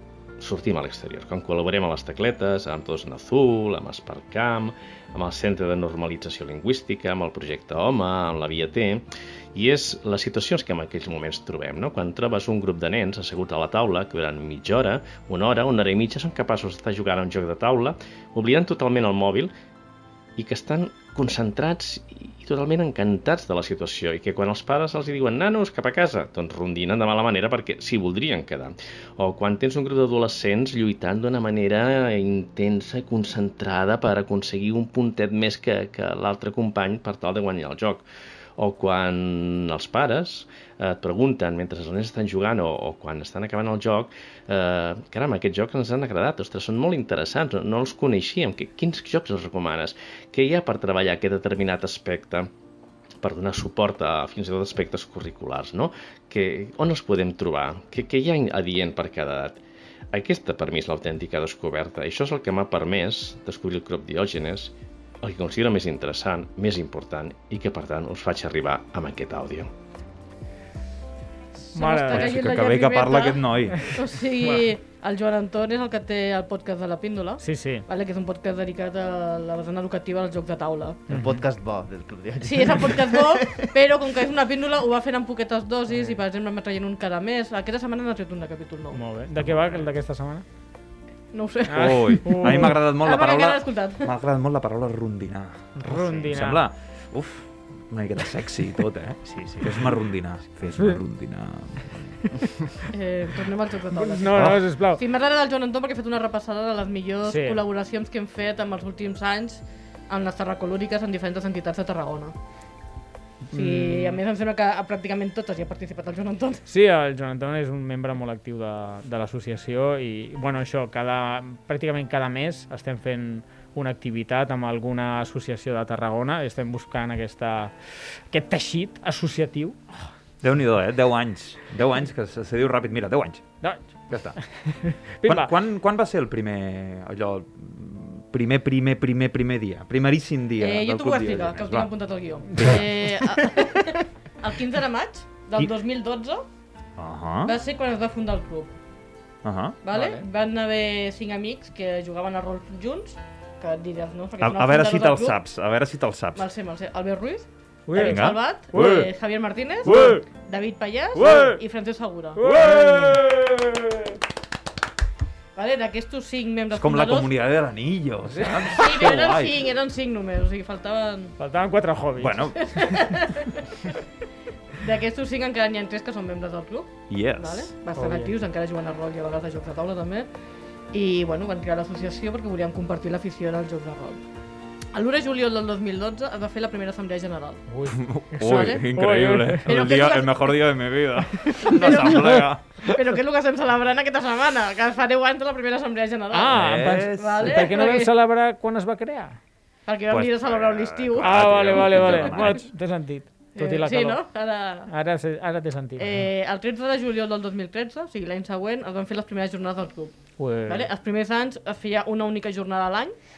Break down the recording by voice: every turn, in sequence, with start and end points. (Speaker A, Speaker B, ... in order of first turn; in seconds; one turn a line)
Speaker A: 0.4-19.5
Speaker A: 20.4-38.0
Speaker A: 38.6-52.5
Speaker A: 53.2-59.6
Speaker A: 60.1-69.7
Speaker B: 71.7-81.0
Speaker C: 71.7-72.4
Speaker D: 72.1-74.1
Speaker C: 74.4-74.7
Speaker C: 77.4-77.8
Speaker E: 81.1-84.1
Speaker C: 81.1-81.4
Speaker B: 82.4-89.0
Speaker C: 85.9-86.2
Speaker C: 88.9-90.4
Speaker D: 89.3-89.9
Speaker B: 91.3-94.1
Speaker C: 91.7-92.8
Speaker D: 91.7-102.2
Speaker C: 95.8-96.6
Speaker C: 99.3-99.8
Speaker C: 100.7-101.0
Speaker B: 102.9-112.3
Speaker C: 103.9-105.0
Speaker D: 104.3-104.6
Speaker C: 107.3-107.6
Speaker C: 113.5-114.2
Speaker B: 113.5-116.6
Speaker C: 116.7-129.8
Speaker D: 130.4-133.6
Speaker C: 133.6-135.5
Speaker D: 134.1-134.4
Speaker D: 135.2-141.9
Speaker B: 140.6-146.4
Speaker D: 142.5-143.3
Speaker D: 147.0-147.6
Speaker B: 147.4-148.7
Speaker D: 149.4-149.8
Speaker B: 149.8-155.4
Speaker C: 149.9-150.2
Speaker D: 154.4-156.4
Speaker B: 156.3-162.4
Speaker C: 157.9-159.0
Speaker D: 157.9-159.1
Speaker D: 159.8-160.2
Speaker C: 159.9-160.2
Speaker D: 161.2-161.6
Speaker C: 161.2-161.6
Speaker C: 162.3-163.2
Speaker D: 162.4-163.8
Speaker B: 165.6-167.3
Speaker D: 166.7-169.7
Speaker C: 168.3-168.7
Speaker B: 168.8-171.3
Speaker C: 171.4-172.5
Speaker D: 172.2-173.2
Speaker B: 172.6-173.9
Speaker B: 174.8-180.3
Speaker D: 177.1-177.7
Speaker C: 177.9-178.3
Speaker B: 180.9-184.2
Speaker B: 184.9-187.6
Speaker C: 187.7-189.6
Speaker D: 187.8-193.0
Speaker B: 188.4-188.8
Speaker B: 189.6-190.5
Speaker B: 191.7-198.1
Speaker C: 196.3-199.4
Speaker D: 196.5-197.7
Speaker B: 199.9-202.6
Speaker D: 200.1-202.7
Speaker C: 201.2-204.2
Speaker B: 203.6-204.9
Speaker C: 204.9-206.2
Speaker B: 206.0-210.1
Speaker C: 210.4-210.9
Speaker B: 210.6-213.1